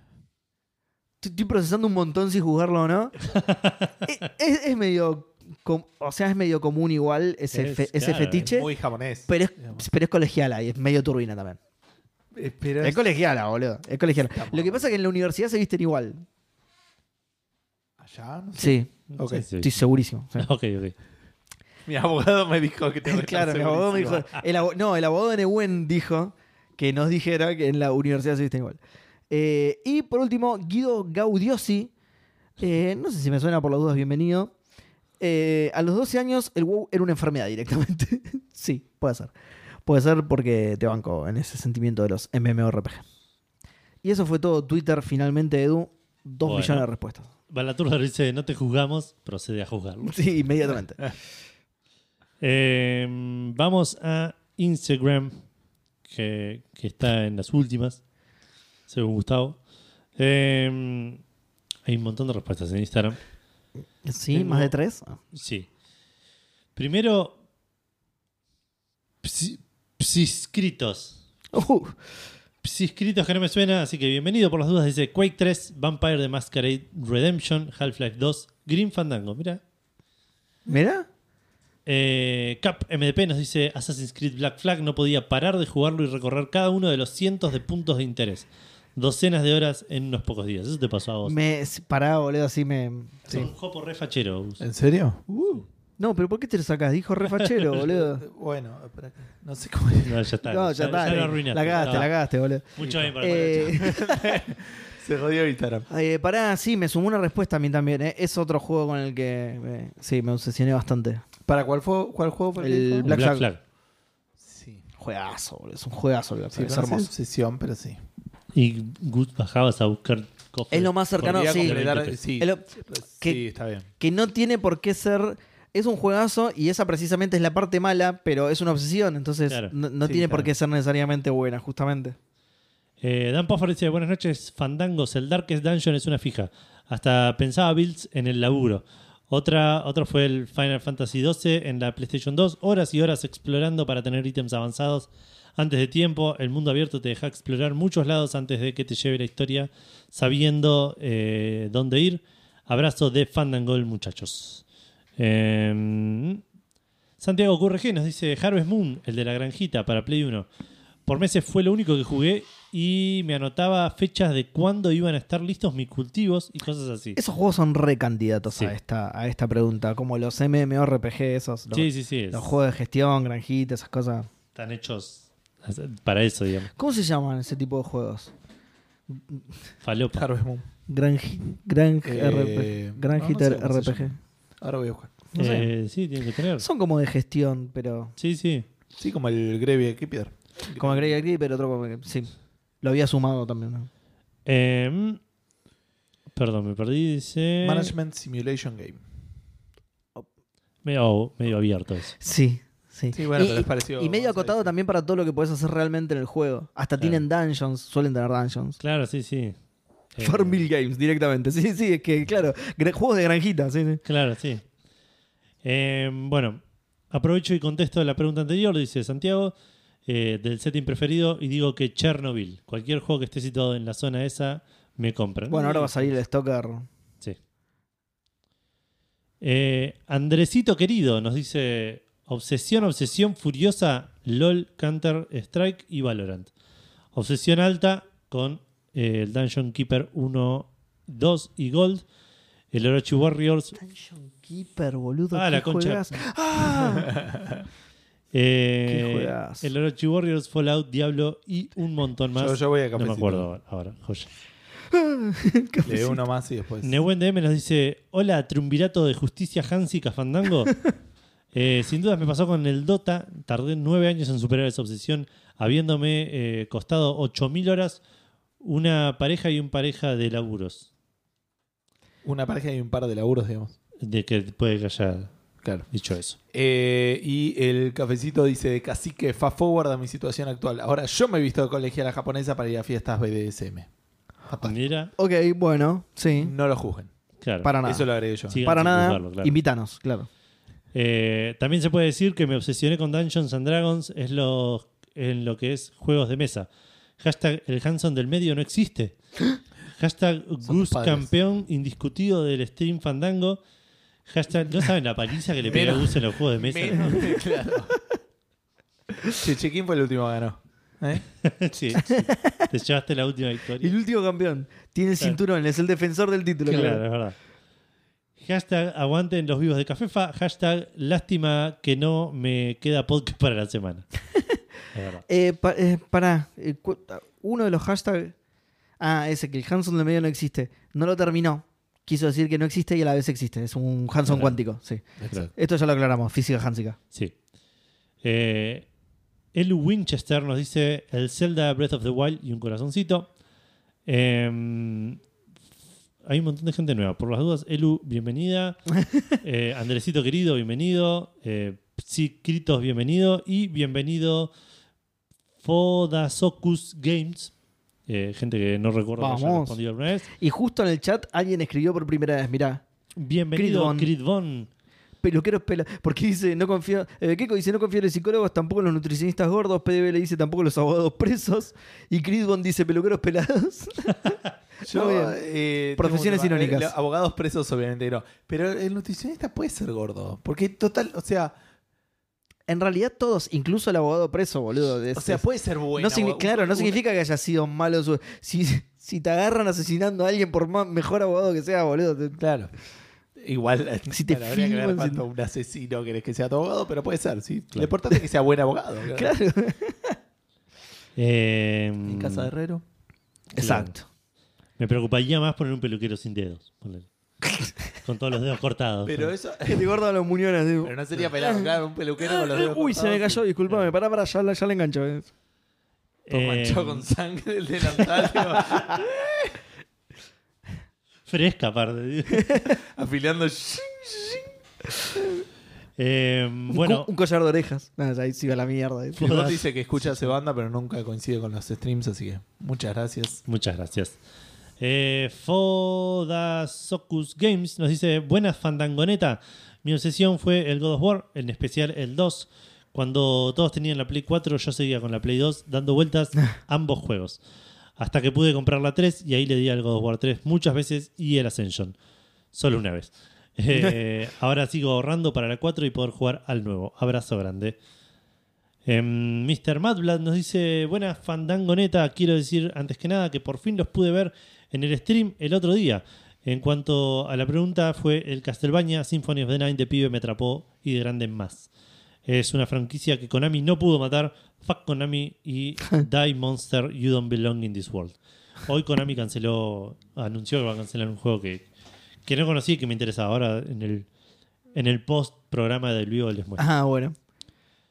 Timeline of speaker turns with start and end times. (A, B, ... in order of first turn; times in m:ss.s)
0:01.2-0:03.2 A
0:03.4-0:03.9 B
0:04.0-0:08.7 A
0:07.5-0:08.5 B
0:08.4-0:09.8 C
0:09.3-0:11.6 A
0:12.4-0:13.0 C
0:12.8-0:16.3 A
0:14.3-0:14.9 C
0:18.0-0:19.5 C
0:18.6-0:18.9 A
0:19.1-0:19.7 B
0:19.5-0:20.5 A
0:20.4-0:21.0 B
0:21.9-0:24.3 C
0:23.0-0:28.8 A
0:29.3-0:31.9 A
0:32.6-0:34.5 A
0:35.2-0:39.3 A
0:39.9-0:43.0 A
0:44.0-0:47.3 A
0:46.4-0:46.9 B
0:47.5-0:50.2 B
0:50.0-0:51.1 A
0:52.4-0:55.4 B
0:56.1-0:58.0 B
0:58.9-0:59.6 B
1:00.2-1:01.2 B
1:01.9-1:03.2 B
1:04.0-1:05.2 A
1:04.3-1:04.7 B
1:05.3-1:05.7 B
1:06.8-1:07.4 B
1:09.2-1:11.2 B
1:11.5-1:12.0 A
1:12.6-1:19.6 B
1:20.7-1:21.1 A
1:21.9-1:31.4 B
1:31.2-1:33.4 A
1:33.3-1:34.6 B
1:34.6-1:35.4 C
1:36.0-1:38.2 A
1:37.4-1:37.6 B
1:37.7-1:40.2 C
1:40.0-1:42.1 B
1:40.4-1:44.4 A
1:42.8-1:44.0 B
1:42.8-1:43.1 C
1:43.7-1:45.9 C
1:45.9-1:51.2 A
1:51.5-1:53.2 C
1:52.6-1:53.5 A
1:53.0-1:53.6 B
1:54.4-1:54.8 C
1:55.0-1:57.1 A
1:56.5-1:58.0 C
1:58.5-2:02.2 B
2:00.7-2:03.4 A
2:01.2-2:03.9 C
2:04.0-2:12.2 A
2:09.5-2:09.7 B
2:10.0-2:10.5 C
2:13.0-2:34.6 B
2:35.2-2:36.4 B
2:37.2-2:40.5 B
2:41.1-2:47.2 B
2:47.2-2:54.3 A
2:51.7-2:52.5 B
2:54.6-2:56.7 B
2:56.8-2:58.3 A
2:59.1-2:59.4 A
2:59.8-3:00.2 B
3:00.1-3:00.7 C
3:00.9-3:04.2 A
3:02.0-3:05.2 C
3:05.3-3:05.7 A
3:05.4-3:06.7 B
3:06.6-3:08.1 A
3:08.2-3:08.7 B
3:09.0-3:11.1 C
3:10.8-3:12.3 A
3:12.8-3:13.9 A
3:14.5-3:15.2 B
3:16.3-3:17.9 B
3:17.6-3:19.0 C
3:20.8-3:22.2 B
3:22.2-3:28.8 A
3:23.1-3:24.7 C
3:28.8-3:29.6 B
3:30.2-3:30.6 B
3:30.2-3:34.0 A
3:34.0-3:34.6 B
3:35.6-3:39.5 B
3:40.1-3:46.2 B
3:45.5-3:46.9 A
3:49.4-3:56.5 B
3:57.1-4:02.0 B
4:02.7-4:03.8 B
4:03.8-4:07.2 A
4:05.3-4:06.2 B
4:07.0-4:07.6 C
4:08.3-4:14.3 B
4:08.9-4:09.7 A
4:12.4-4:13.4 C
4:14.9-4:16.2 A
4:15.9-4:17.0 C
4:16.8-4:20.7 B
4:21.5-4:28.0 B
4:28.6-4:30.9 B
4:32.2-4:33.8 C
4:34.0-4:35.3 B
4:35.6-4:35.9 C
4:35.9-4:36.4 B
4:36.5-4:43.9 C
4:44.5-4:44.8 C
4:44.6-4:45.1 B
4:45.2-4:46.5 A
4:46.4-4:47.1 C
4:47.4-4:47.8 B
4:47.6-4:48.1 A
4:47.8-4:48.6 C
4:48.5-4:49.5 B
4:48.6-4:50.3 A
4:50.9-4:56.7 B
4:57.2-4:59.2 B
5:00.0-5:03.6 B
5:00.7-5:01.3 C
5:04.3-5:07.3 B
5:05.6-5:08.0 C
5:09.3-5:11.2 C
5:11.4-5:14.0 B
5:12.0-5:12.6 A
5:13.8-5:17.0 A
5:16.6-5:17.4 B
5:18.4-5:24.0 B
5:24.9-5:25.2 B
5:25.3-5:28.4 A
5:29.0-5:37.0 A
5:34.3-5:34.6 B
5:35.2-5:35.5 C
5:38.2-5:38.9 B
5:39.5-5:43.3 B
5:44.1-5:45.2 B
5:46.3-5:48.9 B
5:49.4-5:54.5 B
5:55.6-5:57.5 B
5:58.1-6:00.3 B
5:59.2-5:59.8 A
6:00.3-6:02.8 A
6:03.2-6:04.7 B
6:03.5-6:04.1 A
6:05.2-6:15.4 A
6:14.8-6:21.5 C
6:16.0-6:16.9 A
6:22.7-6:25.4 A
6:25.1-6:27.0 C
6:26.0-6:32.4 A
6:32.4-6:32.7 C
6:33.4-6:39.3 C
6:34.1-6:35.2 A
6:39.1-6:40.2 A
6:41.2-6:42.5 B
6:42.1-6:42.8 C
6:43.6-6:44.1 A
6:43.6-6:43.9 B
6:44.8-6:47.1 B
6:48.0-6:49.3 B
6:49.1-6:50.0 C
6:49.7-6:55.3 A
6:50.8-6:53.4 C
6:56.3-6:57.0 B
6:56.3-6:59.5 C
6:58.6-6:58.8 A
7:01.3-7:02.5 B
7:02.3-7:02.8 A
7:02.6-7:04.5 C
7:06.0-7:07.1 B
7:06.7-7:09.5 A
7:09.2-7:10.3 B
7:09.2-7:13.4 C
7:13.5-7:14.2 B
7:14.8-7:27.4 B
7:28.0-7:32.0 B
7:32.5-7:37.8 B
7:38.9-7:51.7 B
7:52.3-8:01.7 B
8:02.3-8:04.1 B
8:04.7-8:06.6 B
8:06.6-8:07.2 A